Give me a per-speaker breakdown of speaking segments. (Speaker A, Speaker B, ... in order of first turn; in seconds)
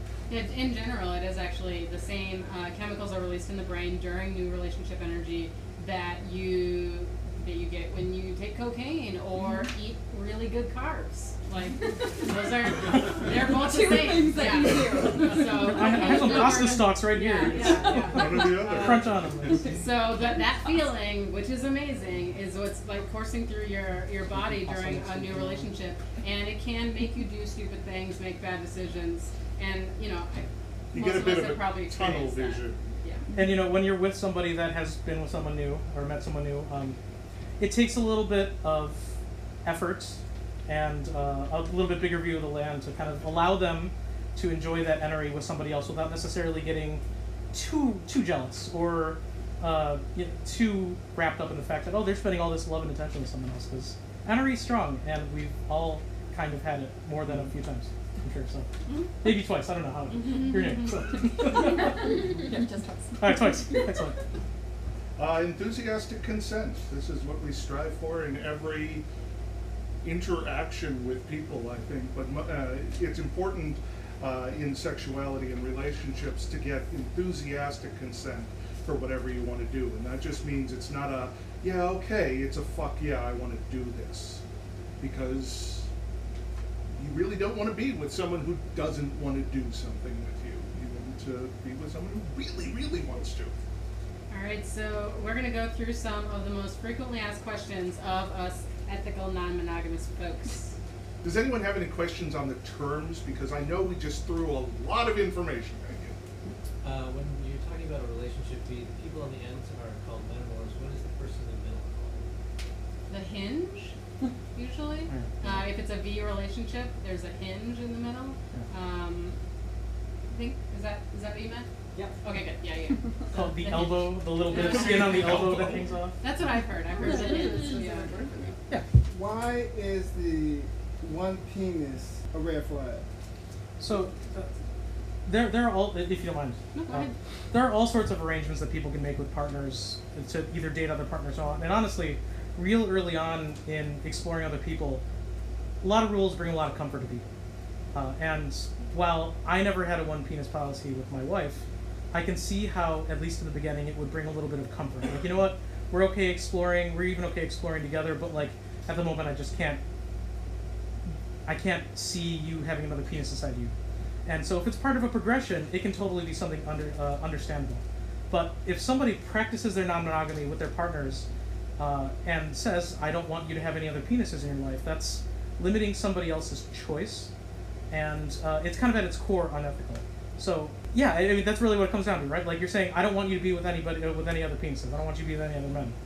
Speaker A: 0.3-19.0, 19.6-33.2, 94.3-100.7, 113.1-114.0, 114.5-119.3, 120.3-121.7, 122.2-125.4, 126.2-128.1, 136.7-137.1
Speaker B: 13.3-16.6, 19.4-19.7, 61.5-63.8
Speaker C: 15.6-19.7, 24.4-25.7, 33.3-37.0, 37.6-47.0, 47.5-58.7, 59.2-62.1, 63.2-64.2, 123.3-126.2, 133.8-134.5, 135.2-145.0, 145.8-147.3, 147.9-159.8, 161.4-163.7, 164.2-171.2, 171.8-177.3, 177.9-185.9
Speaker D: 17.6-19.7, 30.9-32.8, 65.2-69.0, 70.0-84.4, 85.0-85.9, 86.9-93.5, 101.2-106.2, 124.5-125.9
Speaker E: 106.8-112.3
Speaker F: 127.1-128.5, 129.1-133.0